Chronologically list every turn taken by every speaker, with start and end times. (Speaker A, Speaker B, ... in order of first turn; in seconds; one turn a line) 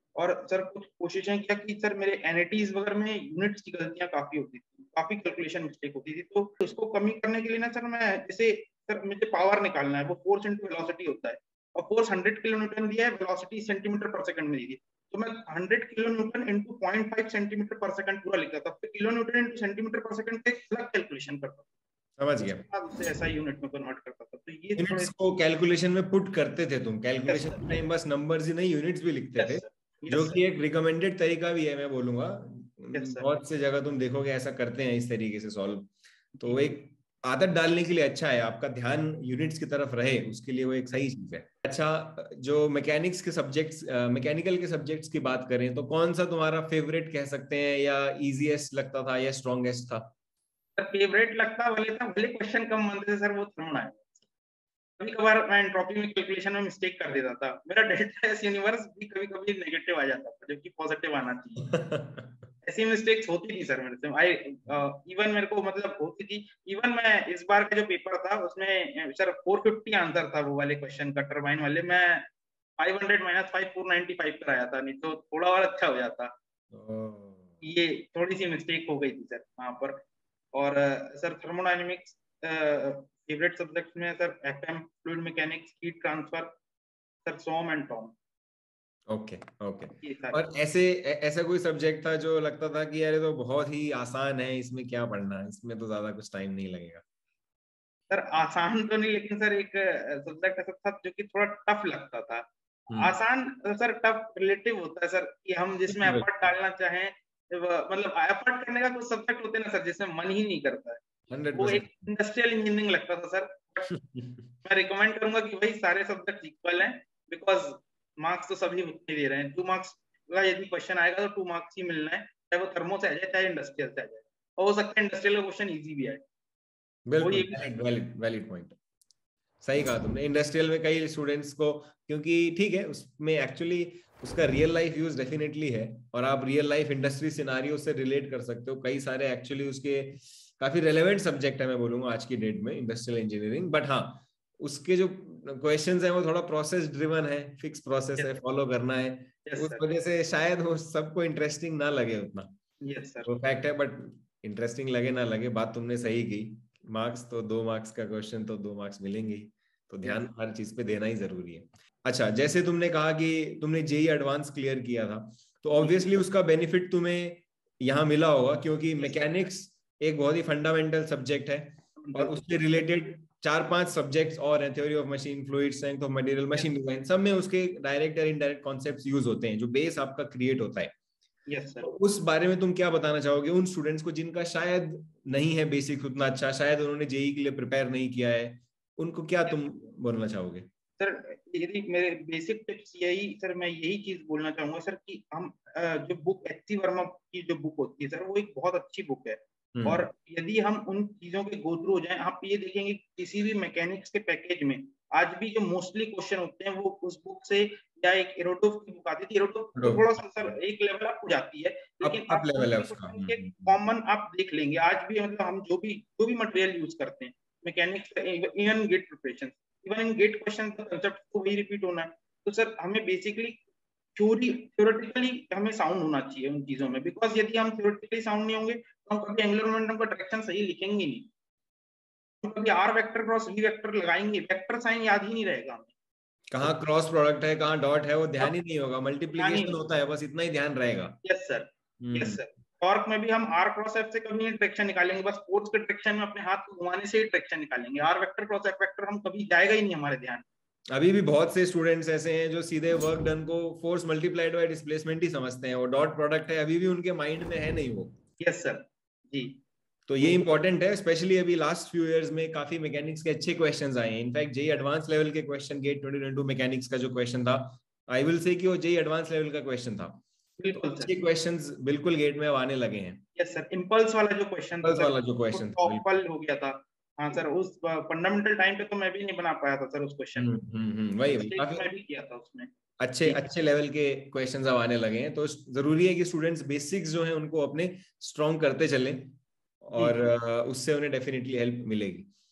Speaker A: 0.2-21.6
Speaker B: 22.2-22.6
Speaker A: 22.4-25.1
Speaker B: 24.8-50.1
Speaker A: 27.3-27.8
Speaker A: 29.4-30.4
Speaker A: 32.9-33.2
Speaker A: 36.4-36.8
Speaker A: 50.8-54.2
Speaker A: 55.0-61.7
Speaker B: 61.8-62.3
Speaker A: 62.6-72.2
Speaker A: 72.8-76.3
Speaker B: 76.7-77.5
Speaker A: 77.6-80.0
Speaker A: 80.5-86.5
Speaker A: 87.2-88.2
Speaker B: 89.1-97.0
Speaker A: 90.0-90.4
Speaker A: 98.1-113.9
Speaker B: 102.9-103.2
Speaker B: 105.9-106.3
Speaker B: 111.3-112.1
Speaker B: 113.9-114.4
Speaker A: 114.6-126.2
Speaker B: 127.1-128.8
Speaker A: 127.2-127.6
Speaker B: 129.6-152.5
Speaker A: 148.2-148.4
Speaker A: 149.5-149.9
Speaker A: 152.8-153.3
Speaker B: 153.2-180.9
Speaker A: 165.8-166.1
Speaker A: 169.0-169.2
Speaker A: 172.0-172.4
Speaker A: 181.5-181.9
Speaker B: 181.8-190.7
Speaker A: 191.0-223.6
Speaker B: 199.8-200.1
Speaker B: 209.8-210.5
Speaker B: 212.0-213.8
Speaker A: 224.2-231.3
Speaker A: 232.4-235.9
Speaker B: 236.5-241.2
Speaker A: 239.3-239.8
Speaker A: 241.2-250.4
Speaker B: 242.0-242.4
Speaker B: 250.9-258.1
Speaker A: 258.4-259.6
Speaker B: 260.1-270.2
Speaker A: 260.2-260.6
Speaker A: 270.6-271.1
Speaker B: 270.7-273.2
Speaker A: 273.4-280.5
Speaker B: 274.8-276.1
Speaker B: 280.4-281.9
Speaker A: 281.4-282.7
Speaker B: 283.0-292.3
Speaker A: 283.2-283.5
Speaker A: 289.9-290.3